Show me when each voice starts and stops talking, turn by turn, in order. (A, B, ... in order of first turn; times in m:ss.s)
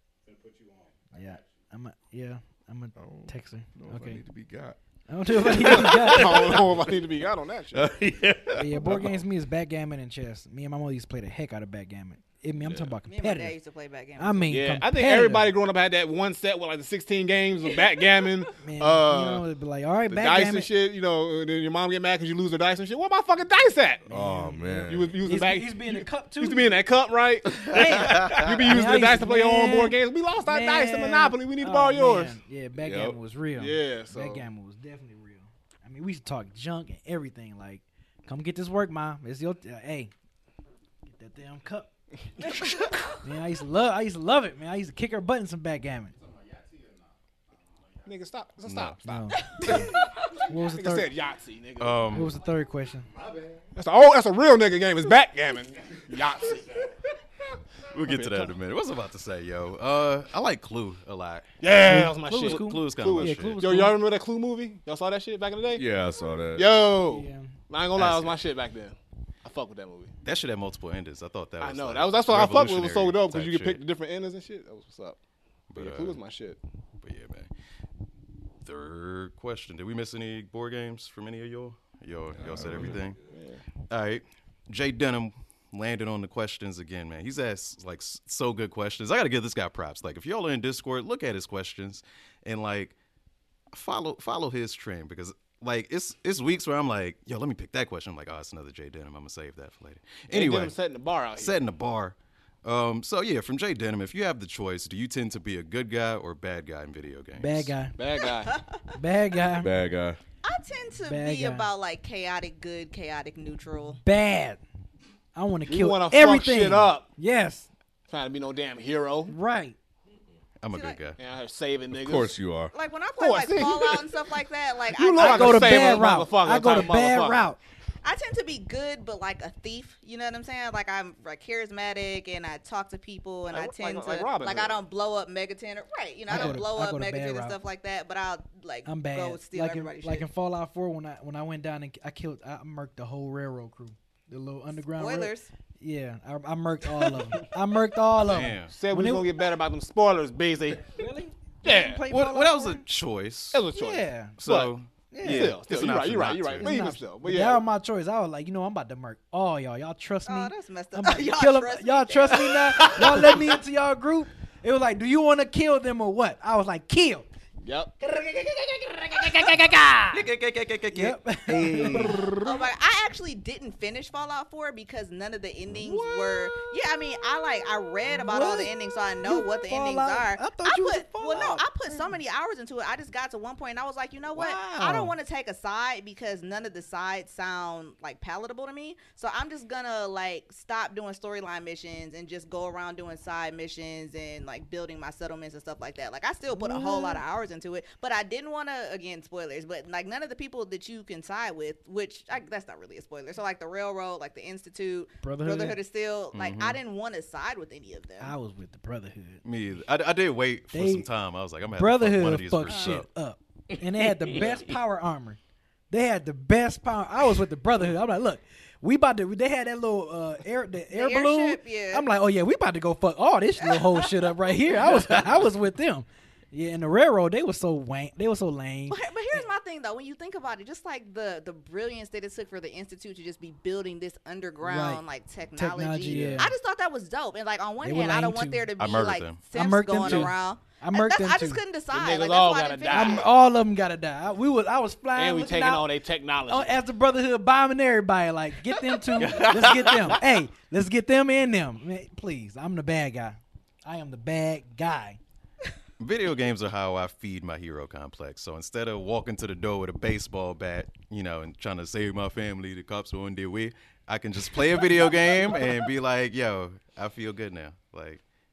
0:00.2-0:01.7 A
0:01.1-0:04.2 B
0:03.0-0:04.8 C
0:05.1-0:06.5 B
0:05.4-0:07.1 C
0:05.6-0:07.9 D
0:07.7-0:09.2 C
0:08.6-0:13.6 B
0:12.6-0:12.9 E
0:13.1-0:14.7 F
0:14.2-0:15.5 B
0:14.5-0:19.5 D
0:17.6-0:18.4 F
0:18.6-0:20.7 B
0:20.1-0:24.0 D
0:24.1-0:26.8 B
0:24.1-0:25.2 C
0:24.9-0:32.4 D
0:27.7-0:40.1 B
0:27.8-0:28.5 E
0:32.7-0:33.2 C
0:33.5-0:34.5 D
0:41.1-0:41.9 B
0:42.4-0:43.0 D
0:43.2-0:46.1 B
0:46.1-0:48.4 A
0:48.0-0:52.1 D
0:48.6-0:49.0 E
0:49.0-0:49.9 B
0:49.7-0:51.4 A
0:50.5-0:51.1 B
0:51.8-0:52.3 E
0:52.0-0:53.8 A
0:52.1-0:53.1 B
0:53.8-0:56.9 D
0:55.7-0:57.2 A
0:57.9-1:01.6 E
0:58.0-0:58.5 D
1:01.6-1:05.8 D
1:01.8-1:04.0 B
1:02.3-1:03.6 E
1:05.7-1:06.7 C
1:06.6-1:10.1 D
1:07.0-1:07.6 B
1:08.0-1:08.4 E
1:10.2-1:13.8 E
1:11.6-1:15.2 D
1:15.7-1:16.2 E
1:15.7-1:16.6 D
1:17.0-1:17.5 E
1:18.6-1:23.2 E
1:22.3-1:23.2 C
1:23.3-1:23.6 D
1:23.9-1:32.9 E
1:33.7-1:40.7 E
1:40.3-1:41.6 D
1:41.4-1:47.7 E
1:47.4-1:48.0 B
1:48.0-1:48.6 D
1:48.2-1:48.9 F
1:49.0-1:49.7 B
1:49.6-1:50.2 C
1:50.4-1:54.0 F
1:51.0-1:51.7 B
1:54.0-1:54.6 B
1:55.4-1:57.7 B
1:55.7-1:57.1 D
1:58.1-1:59.3 D
1:59.3-1:59.8 B
2:00.6-2:01.2 E
2:00.7-2:01.0 F
2:01.2-2:02.3 D
2:01.9-2:02.7 C
2:02.7-2:06.0 F
2:03.2-2:04.1 D
2:04.9-2:07.5 D
2:05.2-2:07.6 B
2:08.0-2:20.3 F
2:13.5-2:14.8 D
2:16.3-2:17.6 B
2:16.3-2:16.6 D
2:18.9-2:29.3 B
2:24.9-2:25.5 F
2:28.2-2:28.7 E
2:28.7-2:31.0 D
2:30.9-2:32.8 B
2:31.6-2:32.0 D
2:32.1-2:33.6 E
2:33.5-2:37.6 D
2:33.7-2:34.4 B
2:34.4-2:36.8 E
2:35.1-2:35.6 B
2:36.6-2:47.3 B
2:40.3-2:43.6 F
2:47.6-2:47.9 D
2:48.0-2:50.2 F
2:50.1-2:52.3 E
2:50.9-2:52.5 B
2:52.4-3:28.3 F
2:55.8-2:56.8 B
2:58.1-3:02.2 B
3:04.3-3:05.1 B
3:16.5-3:17.2 B
3:25.2-3:25.8 B
3:26.3-3:26.8 E
3:28.2-3:29.4 B
3:29.4-3:33.1 E
3:30.7-3:31.1 B
3:31.8-3:35.4 B
3:32.7-3:33.0 F
3:35.9-3:49.4 B
3:40.9-3:42.1 F
3:43.6-3:44.4 F
3:48.9-4:03.3 F
3:54.6-3:55.0 B
3:55.6-3:56.5 B
3:56.0-3:56.5 D
3:57.8-3:58.7 B
3:58.8-3:59.4 E
3:59.5-4:01.6 B
4:00.0-4:00.3 D
4:01.9-4:03.3 D
4:02.9-4:05.9 B
4:05.2-4:06.8 D
4:06.5-4:15.2 B
4:09.2-4:10.2 E
4:16.0-4:28.2 E